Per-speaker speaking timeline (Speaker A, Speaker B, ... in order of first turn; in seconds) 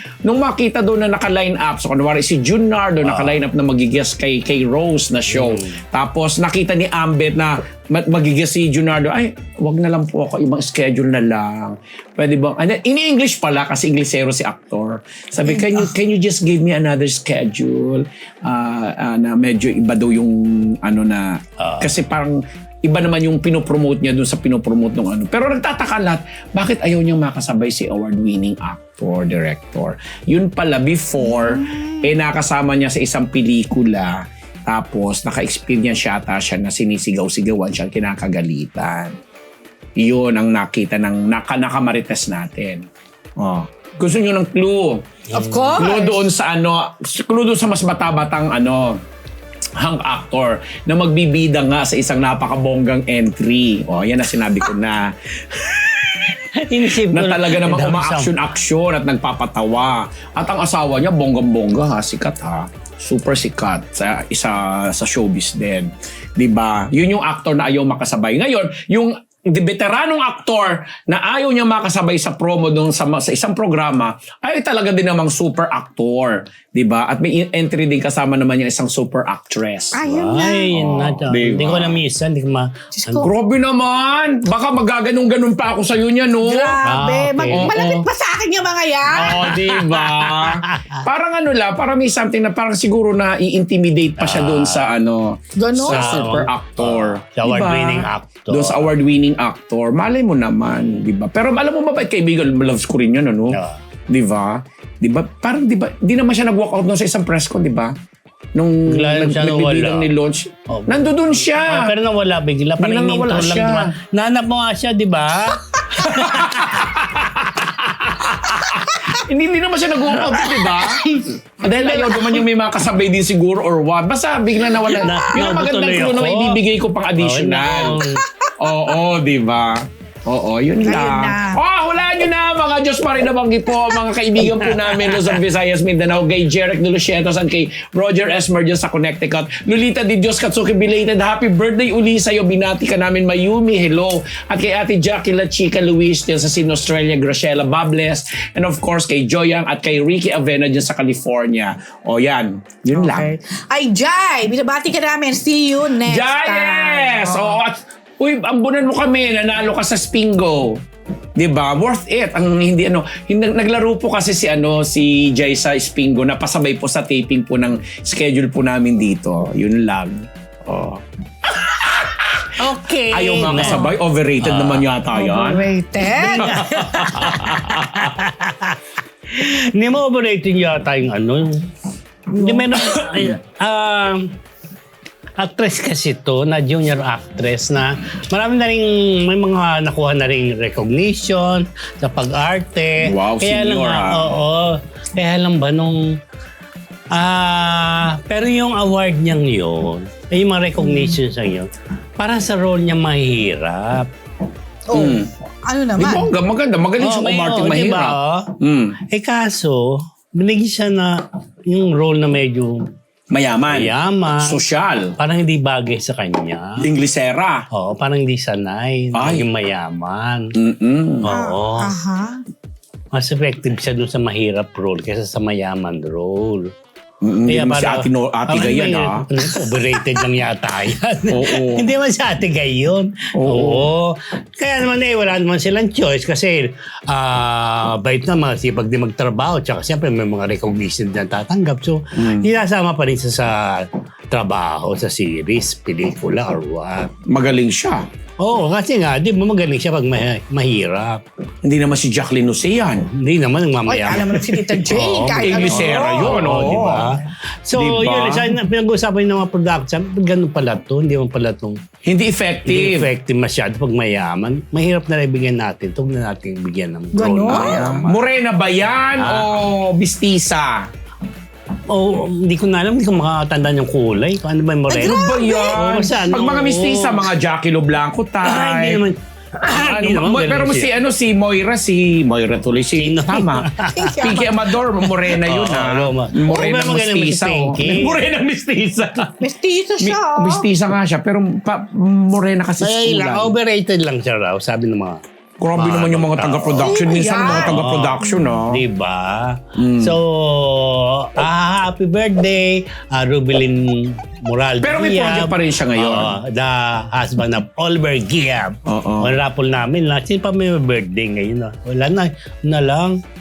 Speaker A: 0.2-21.3, 21.8-34.1, 34.7-39.1, 40.0-42.8, 43.4-45.0, 45.8-49.0, 49.8-55.1, 56.9-80.0, 80.7-82.0, 83.2-86.8, 87.5-88.1, 89.1-103.6, 104.1-107.9, 108.5-111.9, 112.8-113.9, 116.0-121.0, 121.6-128.0, 128.6-153.3, 156.0-160.8, 161.4-171.0, 171.9-172.3, 173.1-175.6, 176.4-178.1, 193.0-194.3, 204.9-205.3, 206.0-209.0, 213.3-215.1, 216.8-217.7, 219.1-219.5, 220.6-221.3, 227.2-229.3, 231.3-231.9, 233.3-233.9, 242.2-242.5, 247.3-248.1, 251.6-253.1, 255.4-257.1, 257.7-258.5, 262.0-263.1, 267.5-270.8, 274.9-279.0, 279.6-289.4, 290.0-293.6, 295.6-298.8, 299.8-300.2, 304.8-306.4, 308.9-309.4
Speaker B: 3.0-3.4, 5.3-5.8, 21.6-21.9, 45.3-46.0, 56.5-58.4, 80.0-83.3, 86.8-87.7, 89.3-91.0, 94.2-94.9, 95.9-98.9, 103.5-103.8, 108.9-110.1, 110.7-116.8, 120.3-122.3, 124.7-126.6, 127.2-128.2, 134.4-135.4, 172.6-173.8, 174.4-174.9, 176.2-178.8, 179.3-181.7, 182.3-184.3, 185.4-196.2, 197.1-204.1, 207.0-208.5, 209.1-211.2, 211.7-212.8, 213.7-214.6, 215.2-216.9, 217.7-220.5, 221.2-221.9, 223.1-226.7, 227.5-247.1, 248.4-251.2, 253.1-261.8, 262.6-268.2, 269.2-269.6, 271.9-277.2, 278.4-280.9, 283.0-284.3, 285.3-288.2, 292.8-295.2, 295.8-313.2
Speaker C: 15.5-15.8, 31.2-32.1, 45.3-46.2, 79.9-80.7, 82.9-83.3, 86.4-89.5, 95.6-96.2, 130.8-131.6, 152.9-157.6, 172.6-174.0, 175.1-177.2, 182.4-182.9, 200.8-201.2, 204.9-206.3, 221.3-222.4, 253.9-257.1, 267.1-267.9, 275.0-275.8, 283.9-284.7, 286.5-286.8, 289.4-290.7, 296.8-298.5